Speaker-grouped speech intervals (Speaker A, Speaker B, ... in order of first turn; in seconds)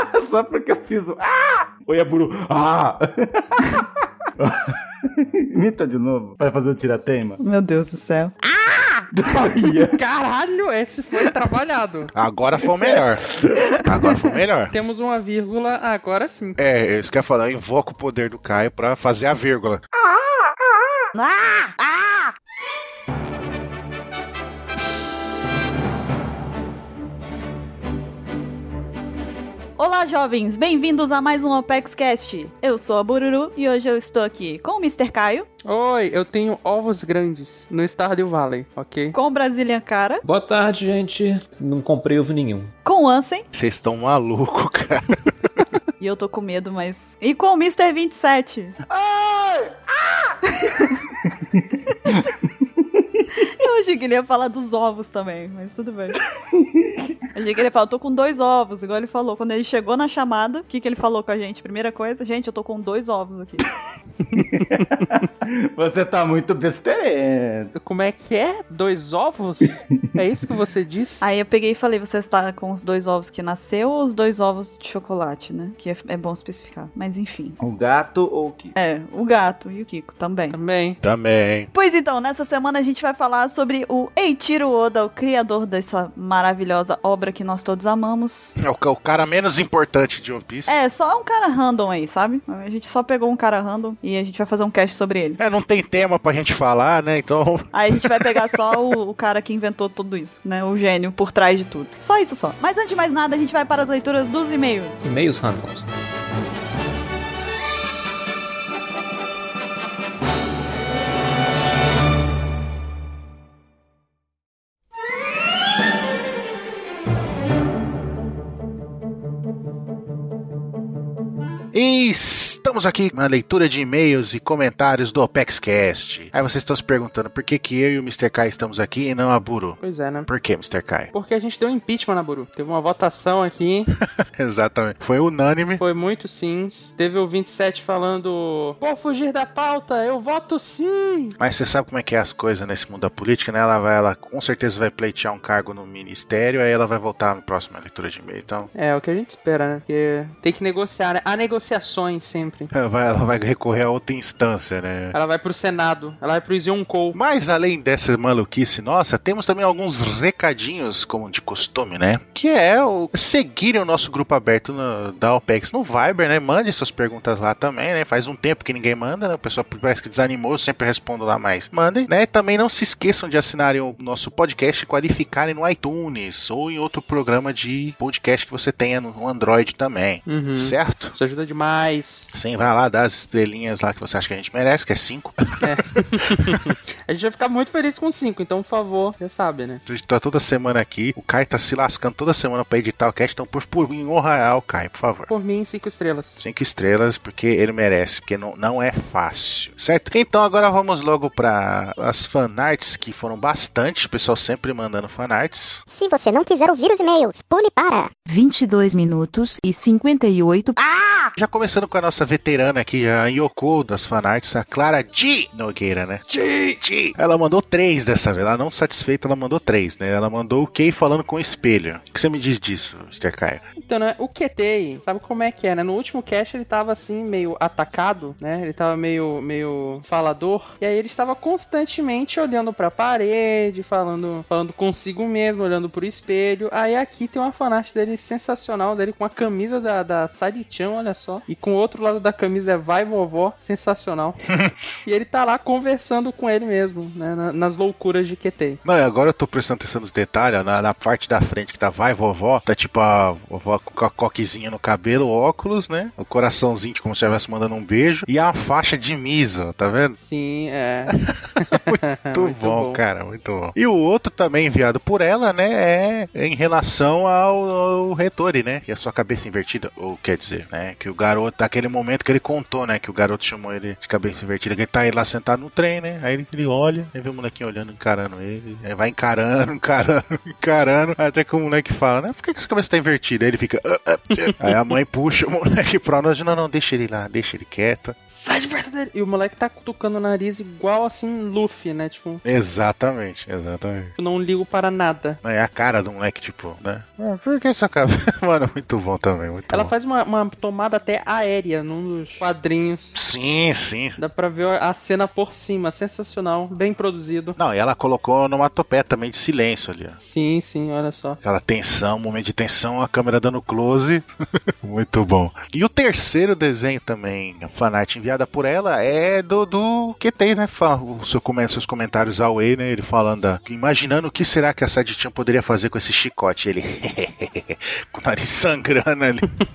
Speaker A: 0.2-3.9, 4.4-7.4, 9.1-10.0, 12.8-13.6, 48.9-50.3, 56.5-57.0, 64.4-67.7, 77.6-78.8
Speaker B: 7.4-9.0, 21.1-22.3, 29.8-35.5, 39.1-40.2, 42.9-43.5, 46.0-48.8, 50.6-50.9, 53.6-56.2, 57.4-63.6, 71.2-77.6, 78.8-80.6, 81.7-88.6, 90.7-95.4, 97.7-105.1
Speaker C: 9.9-12.1, 14.7-16.6, 35.6-39.2, 64.3-64.9, 67.8-71.3, 80.5-81.0, 129.8-130.3, 131.1-133.9, 135.8-141.4, 148.8-152.7, 155.1-157.2, 180.3-182.3, 185.6-189.8, 195.3-196.4, 223.8-244.4, 245.1-248.8, 260.1-263.0, 288.3-292.4, 294.2-295.4, 299.7-303.2, 304.2-307.6, 310.2-311.4
Speaker D: 12.1-13.3, 13.8-14.7, 16.6-19.8, 43.5-45.3, 81.0-81.7, 88.6-90.8, 95.4-98.8, 121.7-131.1, 134.3-135.8, 141.4-148.7, 152.7-155.2, 157.1-181.2, 182.3-185.4, 189.9-195.3, 196.4-205.8, 211.3-223.6, 244.5-244.8, 248.8-260.2, 261.4-288.2, 292.4-294.1, 295.4-299.9, 303.1-304.2, 307.6-310.2, 311.4-314.3, 314.8-329.5
Speaker E: 40.2-42.7, 105.0-105.9
Speaker F: 205.9-208.1
Speaker G: 208.3-210.8